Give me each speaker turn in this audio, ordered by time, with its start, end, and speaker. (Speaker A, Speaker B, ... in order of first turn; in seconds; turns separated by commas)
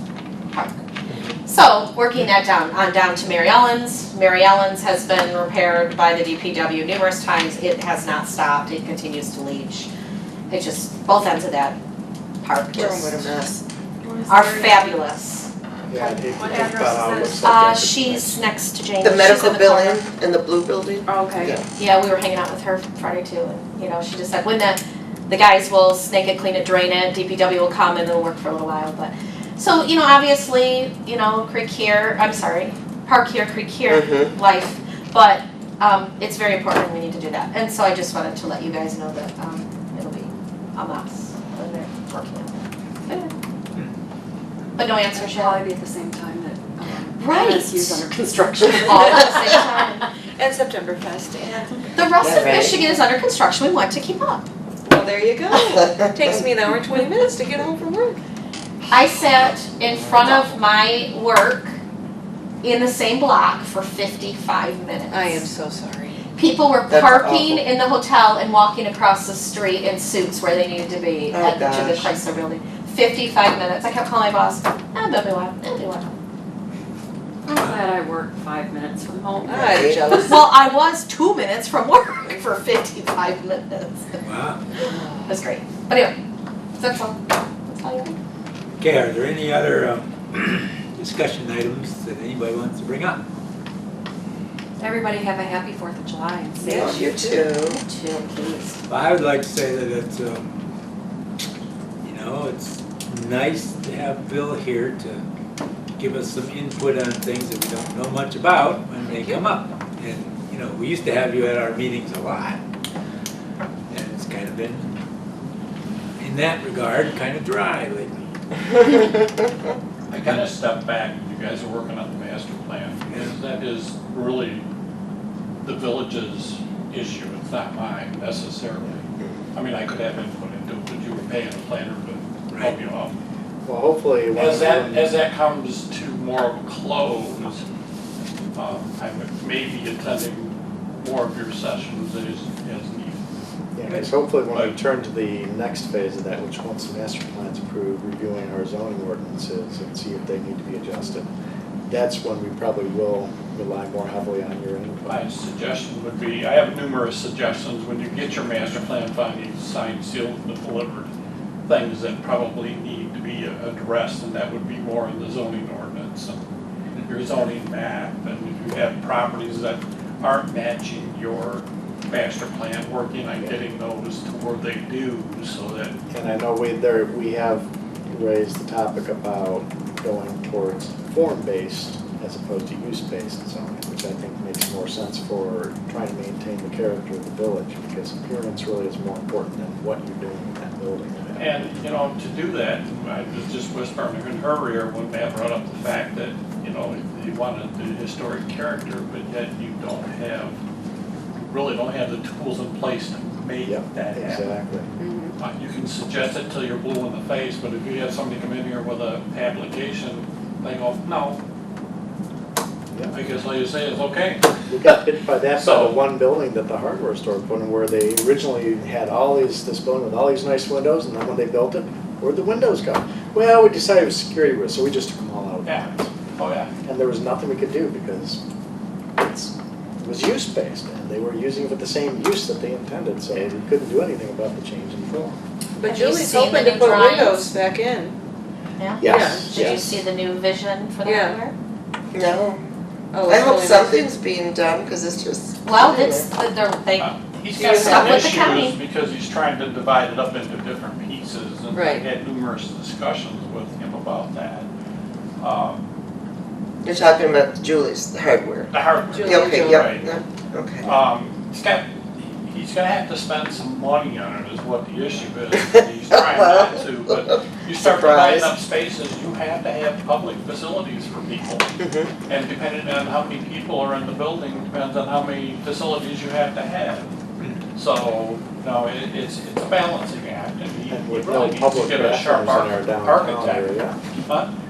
Speaker A: 0.5-0.8, Speaker A: 1.4-9.9, Speaker A: 10.5-11.8, Speaker A: 12.4-13.2, Speaker B: 12.7-13.6, Speaker C: 14.0-14.9, Speaker A: 14.3-15.5, Speaker D: 15.9-18.4, Speaker C: 15.9-17.4, Speaker A: 17.4-20.0, Speaker B: 19.0-21.6, Speaker C: 21.1-21.6, Speaker A: 21.8-43.3, Speaker B: 33.9-34.3, Speaker A: 44.8-45.6, Speaker C: 45.1-49.6, Speaker A: 47.2-48.0, Speaker A: 48.8-50.0, Speaker E: 50.4-52.0, Speaker A: 51.9-54.5, Speaker B: 52.2-52.8, Speaker E: 54.9-58.2, Speaker A: 58.9-61.8, Speaker E: 60.2-60.5, Speaker A: 62.6-65.4, Speaker E: 65.1-66.3, Speaker A: 66.3-76.1, Speaker B: 66.9-67.6, Speaker B: 71.3-72.1, Speaker C: 77.5-79.7, Speaker E: 79.5-80.5, Speaker B: 79.6-80.2, Speaker A: 80.2-84.2, Speaker F: 84.2-84.6, Speaker A: 84.8-86.2, Speaker A: 86.8-88.2, Speaker F: 88.8-93.2, Speaker C: 94.8-97.4, Speaker B: 96.6-97.8, Speaker A: 97.7-98.8, Speaker F: 98.9-100.5, Speaker F: 102.0-105.2, Speaker F: 106.0-112.6, Speaker E: 109.0-109.5, Speaker F: 113.9-115.0, Speaker F: 116.2-118.2, Speaker G: 120.1-124.7, Speaker F: 123.1-123.3, Speaker G: 125.6-133.2, Speaker D: 133.6-135.2, Speaker G: 134.3-137.6, Speaker G: 138.5-143.2, Speaker D: 143.7-151.3, Speaker G: 143.9-144.8, Speaker D: 151.9-155.2, Speaker G: 155.1-161.1, Speaker G: 161.7-166.4, Speaker G: 167.0-175.9, Speaker D: 173.3-173.6, Speaker D: 176.1-191.7, Speaker G: 191.3-200.6, Speaker G: 201.3-204.5, Speaker D: 203.6-204.9, Speaker E: 205.0-205.3, Speaker G: 205.4-211.4, Speaker D: 212.9-213.2, Speaker G: 213.1-214.5, Speaker D: 214.7-226.1, Speaker G: 215.6-216.0, Speaker G: 225.7-226.7, Speaker D: 226.8-228.4, Speaker D: 229.2-235.4, Speaker E: 235.8-238.1, Speaker A: 235.8-237.5, Speaker A: 238.8-241.5, Speaker D: 239.0-240.0, Speaker E: 239.0-239.6, Speaker E: 241.0-241.4, Speaker B: 242.1-242.6, Speaker E: 243.1-244.0, Speaker B: 243.3-246.3, Speaker A: 245.6-248.8, Speaker G: 247.0-254.7, Speaker B: 247.6-248.5, Speaker E: 251.7-252.1, Speaker G: 255.4-255.8, Speaker B: 256.8-260.9, Speaker G: 258.7-260.1, Speaker E: 259.1-259.9, Speaker G: 260.8-277.1, Speaker B: 266.1-268.5, Speaker B: 271.8-272.1, Speaker G: 277.7-284.5, Speaker D: 280.9-284.0